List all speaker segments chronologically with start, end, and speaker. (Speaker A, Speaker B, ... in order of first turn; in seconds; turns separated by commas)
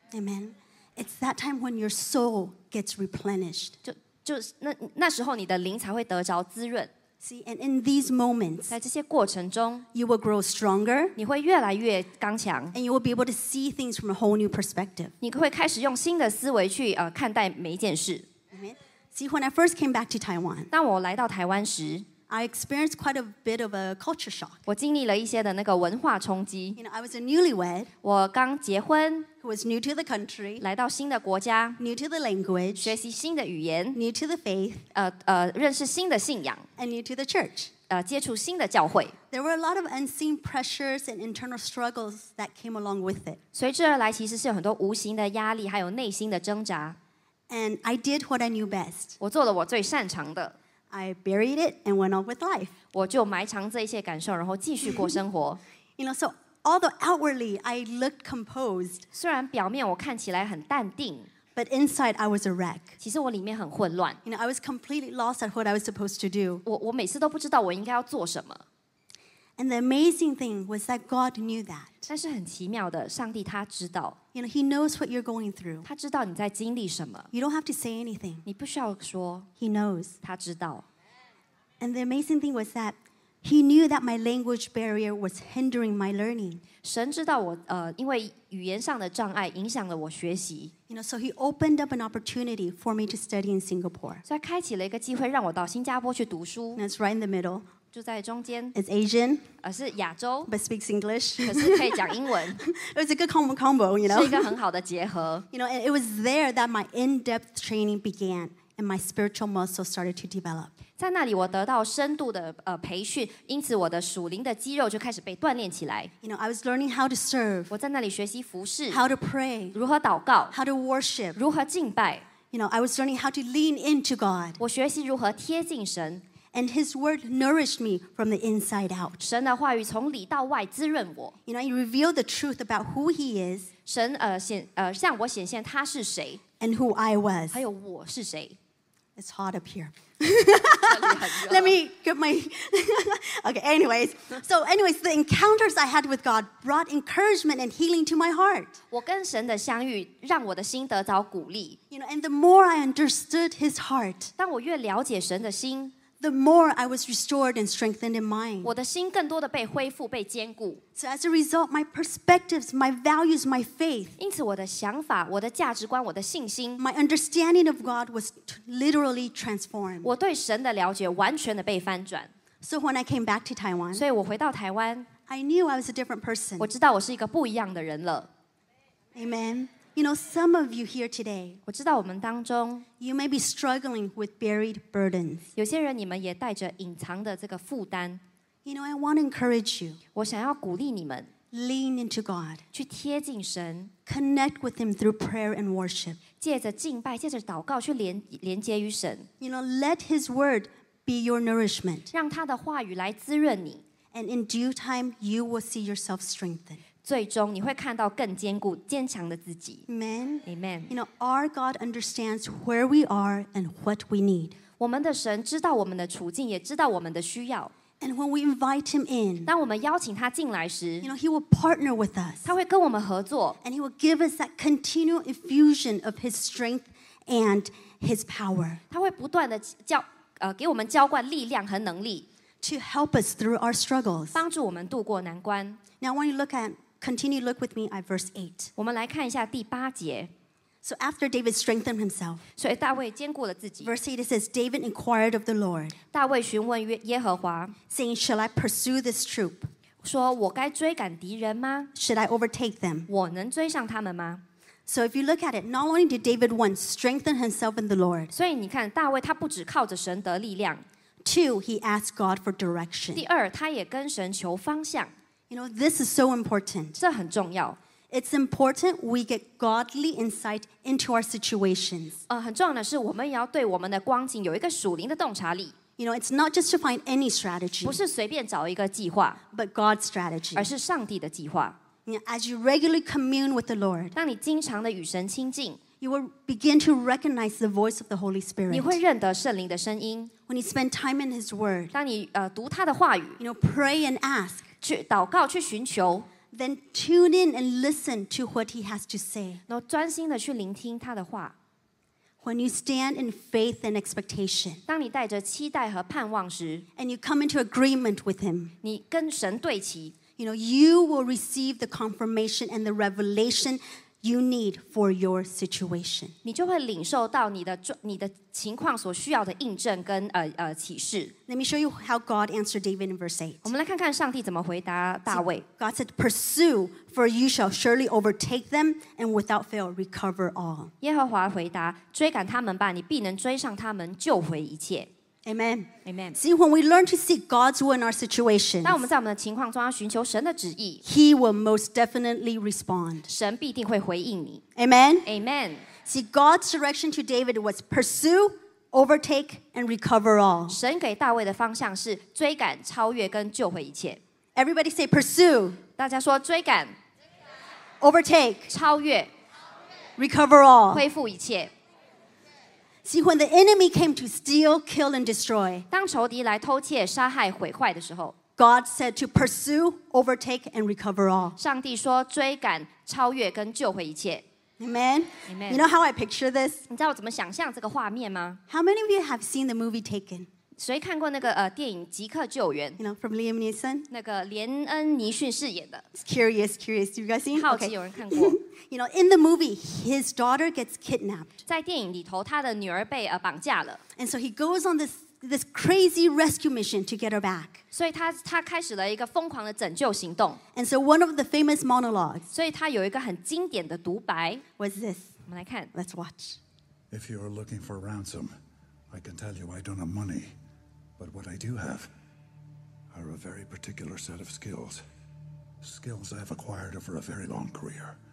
Speaker A: 0.1-3.8, Speaker B: 3.8-6.9, Speaker A: 7.2-8.8, Speaker B: 8.7-9.8, Speaker A: 9.9-11.2, Speaker B: 11.2-12.8, Speaker A: 12.7-15.1, Speaker B: 15.2-18.3, Speaker A: 18.5-20.7, Speaker B: 20.7-22.1, Speaker A: 22.3-24.6, Speaker B: 24.7-26.8, Speaker A: 26.8-27.9, Speaker B: 28.0-29.3, Speaker A: 29.4-30.6, Speaker B: 30.6-31.8, Speaker A: 31.8-33.0, Speaker B: 32.8-34.0, Speaker A: 33.9-34.9, Speaker B: 34.9-36.7, Speaker A: 36.8-37.7, Speaker B: 37.9-39.2, Speaker A: 39.3-43.4, Speaker B: 43.5-47.0, Speaker A: 47.5-49.2, Speaker B: 49.2-50.6, Speaker A: 50.9-52.7, Speaker B: 52.9-55.6, Speaker A: 56.0-59.0, Speaker B: 59.1-61.3, Speaker A: 61.5-63.0, Speaker B: 63.0-64.2, Speaker A: 64.2-66.6, Speaker B: 66.6-68.6, Speaker A: 69.6-72.1, Speaker B: 72.1-74.2, Speaker A: 74.3-75.9, Speaker B: 75.8-77.3, Speaker A: 77.3-78.5, Speaker B: 78.5-79.5, Speaker A: 79.6-80.2, Speaker B: 80.2-80.9, Speaker A: 81.8-86.6, Speaker B: 86.8-90.7, Speaker A: 90.9-94.2, Speaker B: 94.3-96.8, Speaker A: 96.8-97.7, Speaker B: 97.9-98.8, Speaker A: 98.8-99.5, Speaker B: 99.6-100.5, Speaker A: 100.5-104.5, Speaker B: 101.4-102.7, Speaker B: 104.1-105.5, Speaker A: 105.5-110.7, Speaker B: 111.0-116.1, Speaker A: 116.2-117.7, Speaker B: 117.7-119.0, Speaker A: 118.9-119.8, Speaker B: 119.7-120.5, Speaker A: 120.5-121.4, Speaker B: 121.3-122.3, Speaker A: 122.5-124.6, Speaker B: 124.6-126.2, Speaker A: 126.5-129.2, Speaker B: 129.2-131.4, Speaker A: 131.5-133.7, Speaker B: 133.9-136.4, Speaker A: 136.6-137.6, Speaker B: 137.5-138.6, Speaker A: 139.2-148.8, Speaker B: 140.8-141.8, Speaker B: 148.9-151.8, Speaker A: 151.9-154.3, Speaker B: 154.4-155.9, Speaker A: 156.2-158.7, Speaker B: 158.6-160.8, Speaker A: 161.0-164.2, Speaker B: 164.2-166.8, Speaker A: 166.8-170.1, Speaker B: 170.0-172.3, Speaker A: 172.6-174.0, Speaker B: 173.9-175.1, Speaker A: 175.3-176.7, Speaker B: 176.6-178.3, Speaker A: 179.2-181.6, Speaker B: 181.7-182.9, Speaker A: 183.0-185.5, Speaker B: 185.6-188.2, Speaker A: 188.7-190.0, Speaker B: 190.2-191.3, Speaker A: 191.5-192.6, Speaker B: 192.7-193.9, Speaker A: 194.1-196.2, Speaker B: 196.4-199.3, Speaker A: 199.4-202.1, Speaker B: 202.1-203.8, Speaker A: 204.1-206.8, Speaker B: 207.0-209.8, Speaker A: 209.9-214.6, Speaker B: 210.4-210.9, Speaker B: 214.8-217.7, Speaker A: 218.0-219.5, Speaker B: 219.5-221.1, Speaker A: 221.0-222.5, Speaker B: 222.4-223.6, Speaker A: 223.6-228.8, Speaker B: 228.9-232.3, Speaker A: 232.6-234.4, Speaker B: 234.3-235.8, Speaker A: 236.0-238.7, Speaker B: 238.8-240.3, Speaker A: 240.8-242.5, Speaker B: 242.6-243.9, Speaker A: 243.8-246.0, Speaker B: 246.1-247.8, Speaker A: 247.9-249.7, Speaker B: 250.0-251.9, Speaker A: 251.9-253.1, Speaker B: 253.1-254.4, Speaker A: 254.9-258.3, Speaker B: 258.3-260.8, Speaker A: 261.2-263.2, Speaker B: 263.1-265.1, Speaker A: 265.5-267.0, Speaker B: 267.0-267.8, Speaker A: 268.1-272.2, Speaker B: 272.3-275.7, Speaker A: 276.0-278.0, Speaker B: 277.8-279.4, Speaker A: 279.5-280.7, Speaker B: 280.6-281.8, Speaker A: 282.1-284.2, Speaker B: 284.1-285.8, Speaker A: 286.0-289.0, Speaker B: 288.7-290.3, Speaker A: 290.5-291.9, Speaker B: 291.9-293.4, Speaker A: 293.4-294.7, Speaker B: 294.8-296.3, Speaker A: 296.5-299.6, Speaker B: 299.7-301.6, Speaker A: 302.4-304.8, Speaker B: 304.9-306.9, Speaker A: 307.0-308.7, Speaker B: 308.8-310.1, Speaker A: 310.4-316.3, Speaker B: 316.4-321.3, Speaker A: 321.5-323.7, Speaker B: 323.6-325.6, Speaker A: 325.3-330.9, Speaker B: 331.0-335.1, Speaker A: 335.4-339.1, Speaker B: 336.1-336.4, Speaker B: 338.8-341.0, Speaker A: 341.0-343.3, Speaker B: 343.3-344.6, Speaker A: 344.8-345.3, Speaker B: 345.2-345.9, Speaker A: 346.0-350.8, Speaker B: 350.7-354.2, Speaker A: 354.6-355.8, Speaker B: 356.0-357.0, Speaker A: 358.0-358.7, Speaker B: 358.7-359.3, Speaker A: 360.2-361.1, Speaker B: 360.9-361.7, Speaker A: 363.1-365.9, Speaker B: 365.9-368.4, Speaker A: 368.6-371.6, Speaker B: 371.6-374.4, Speaker A: 374.8-376.9, Speaker B: 375.5-375.9, Speaker B: 376.9-378.6, Speaker A: 378.7-380.5, Speaker B: 380.8-383.0, Speaker A: 383.0-384.1, Speaker B: 384.1-386.1, Speaker A: 386.1-391.6, Speaker B: 387.5-388.6, Speaker B: 391.7-394.0, Speaker A: 394.2-397.8, Speaker B: 397.9-400.6, Speaker A: 400.7-402.5, Speaker B: 402.5-404.6, Speaker A: 404.8-405.4, Speaker B: 405.5-405.9, Speaker A: 405.9-406.6, Speaker C: 407.1-408.5, Speaker C: 409.1-410.5, Speaker C: 411.2-412.1, Speaker C: 413.1-415.0, Speaker C: 415.8-418.2